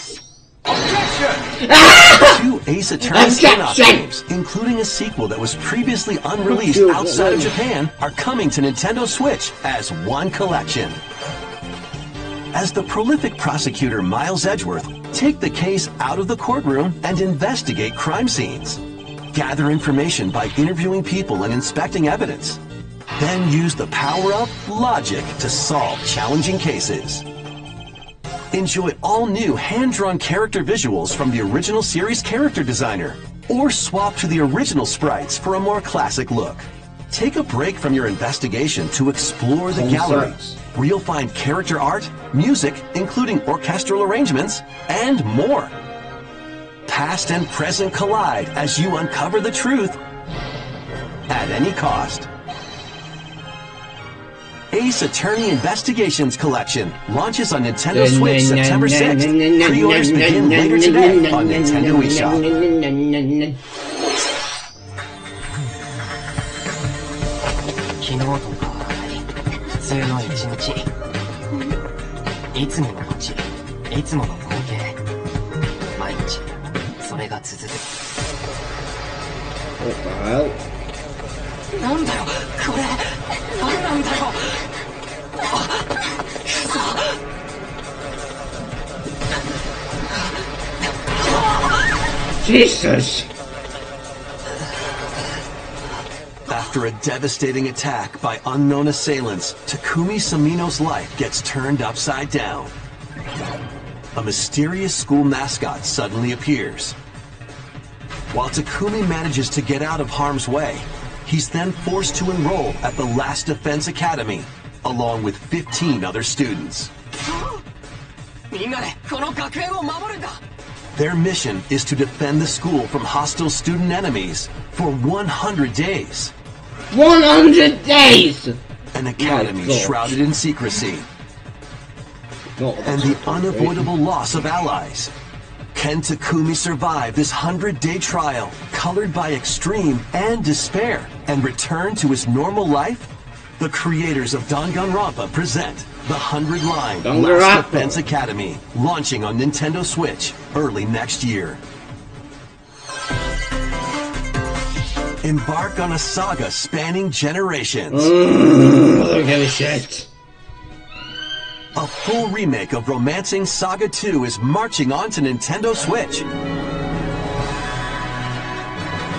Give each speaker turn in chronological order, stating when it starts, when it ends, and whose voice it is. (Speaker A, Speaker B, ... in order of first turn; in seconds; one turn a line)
Speaker A: 0.9-1.3
Speaker B: 1.4-2.4
Speaker A: 2.2-11.0
Speaker B: 3.0-4.0
Speaker B: 6.5-7.5
Speaker A: 12.5-18.8
Speaker A: 19.3-22.6
Speaker A: 23.2-27.2
Speaker A: 28.5-45.7
Speaker B: 39.7-40.5
Speaker A: 46.9-50.0
Speaker A: 51.3-52.2
Speaker A: 54.7-62.4
Speaker B: 57.9-63.6
Speaker C: 68.0-70.9
Speaker C: 72.5-75.0
Speaker C: 76.0-76.4
Speaker C: 77.0-77.8
Speaker B: 79.8-80.6
Speaker C: 81.8-84.7
Speaker C: 85.5-87.2
Speaker C: 91.2-91.7
Speaker B: 92.4-93.3
Speaker A: 96.5-102.7
Speaker A: 104.1-107.0
Speaker A: 108.3-116.9
Speaker C: 118.5-120.4
Speaker A: 121.0-126.3
Speaker B: 126.9-128.6
Speaker A: 128.9-131.1
Speaker B: 129.2-130.2
Speaker B: 132.6-133.9
Speaker A: 132.8-135.1
Speaker A: 135.7-151.6
Speaker B: 147.0-148.0
Speaker A: 155.2-158.1
Speaker B: 157.9-160.1
Speaker A: 161.7-166.3